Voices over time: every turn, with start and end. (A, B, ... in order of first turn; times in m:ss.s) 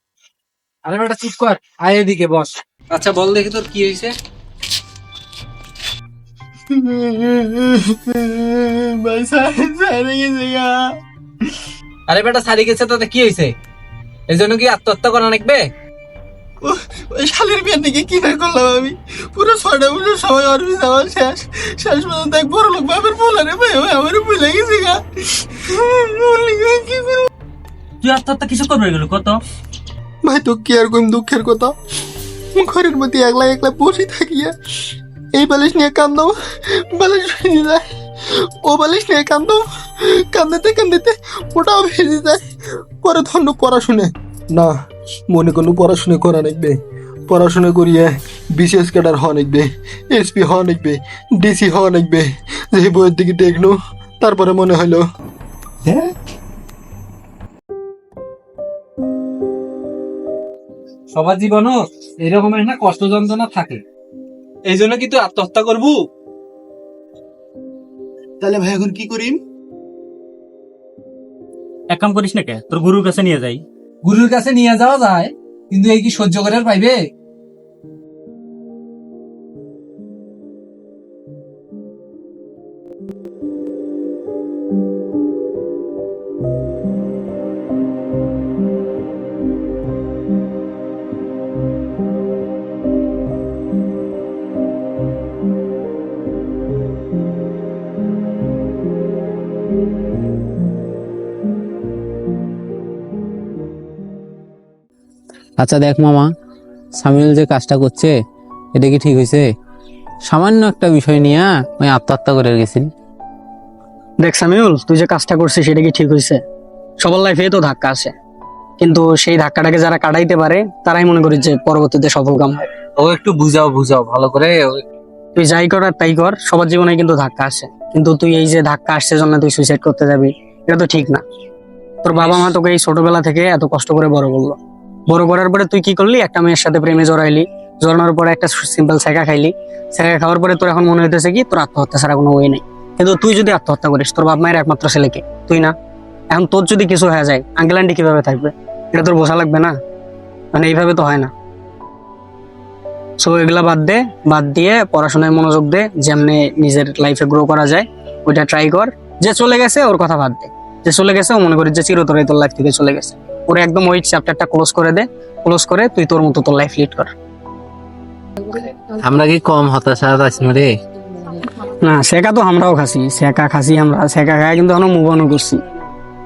0:00.8-0:04.1 A
0:06.7-0:10.9 B
0:12.1-0:13.5 A
0:14.3-0:15.7 A
0:16.6-0:27.3 B
0:28.0-0:29.4 C
0:30.2-0:31.7 B
0:32.5-0:34.5 B
0:35.3-0:42.4 B
0:43.0-0:44.7 B
0:45.3-0:55.0 B
1:01.1-1:03.8 A
1:04.6-1:06.0 A
1:08.4-1:09.4 A
1:11.9-1:13.6 C
1:14.0-1:17.0 A
1:45.6-1:46.3 D
1:46.9-1:48.1 D
1:48.7-1:49.4 D
1:50.2-1:52.9 D
1:54.2-1:56.4 E
1:57.0-1:58.1 E
1:58.8-2:02.7 E
2:05.3-2:11.2 E
2:12.0-2:14.6 E
2:12.2-2:12.4 A
2:15.1-2:25.7 E
2:26.3-2:29.7 E
2:30.5-2:31.3 E
2:33.2-2:47.1 E
2:49.0-2:50.7 D
2:51.6-2:55.6 E